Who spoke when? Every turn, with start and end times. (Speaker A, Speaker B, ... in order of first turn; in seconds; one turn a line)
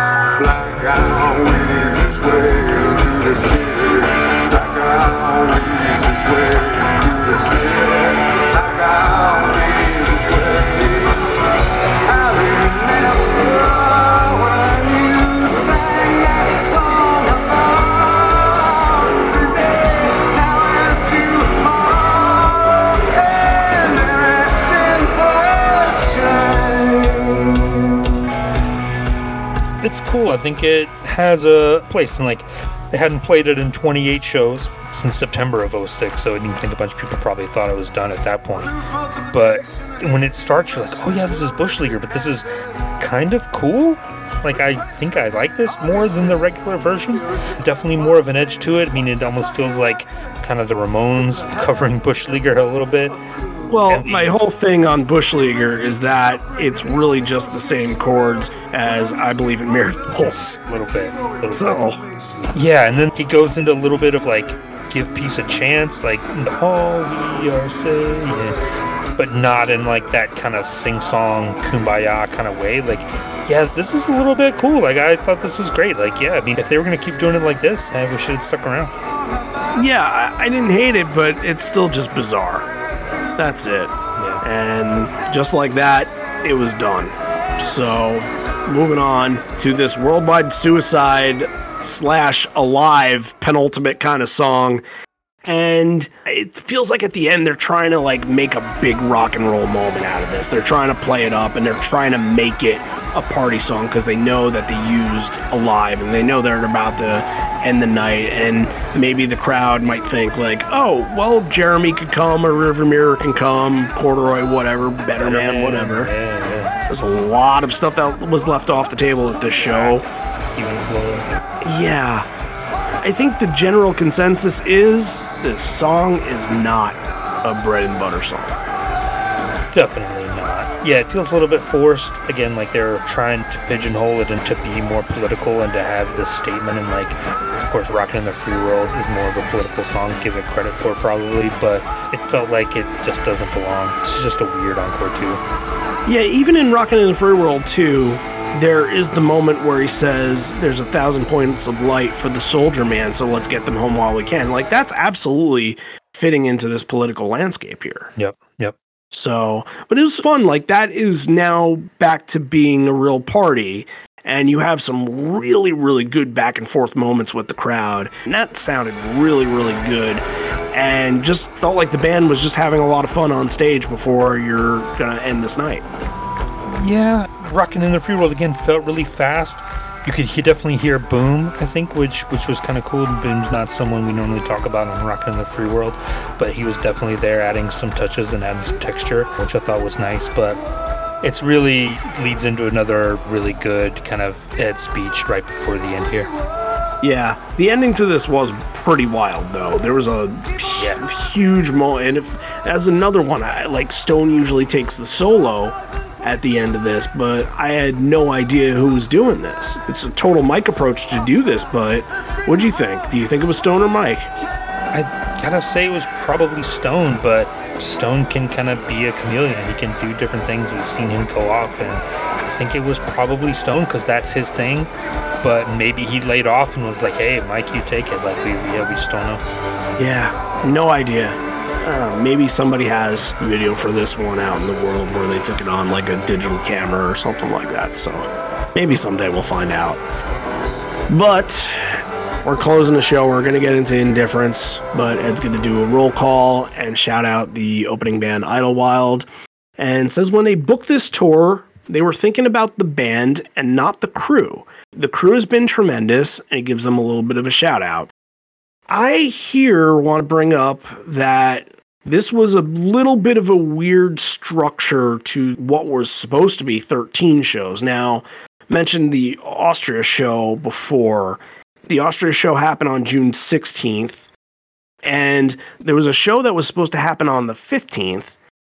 Speaker A: 0.3-11.2
Speaker A: 11.9-28.0
Speaker B: 29.8-53.2
Speaker C: 53.7-60.6
Speaker B: 53.9-54.3
Speaker B: 60.3-61.9
Speaker C: 61.5-62.0
Speaker B: 62.5-68.6
Speaker B: 69.2-79.0
Speaker C: 79.8-82.7
Speaker C: 83.4-94.8
Speaker B: 84.2-84.4
Speaker C: 95.5-116.1
Speaker B: 115.2-116.8
Speaker C: 116.9-120.0
Speaker B: 119.7-120.0
Speaker B: 120.5-121.3
Speaker C: 121.6-122.3
Speaker C: 123.0-128.6
Speaker B: 129.7-145.4
Speaker C: 146.1-158.1
Speaker B: 158.2-158.8
Speaker C: 159.1-175.8
Speaker B: 176.7-190.6
Speaker B: 191.2-196.3
Speaker C: 197.0-214.3
Speaker B: 200.8-201.1
Speaker B: 214.9-229.4
Speaker C: 230.0-240.0
Speaker C: 241.1-249.3
Speaker C: 249.8-258.1
Speaker C: 258.9-274.3
Speaker C: 275.1-278.4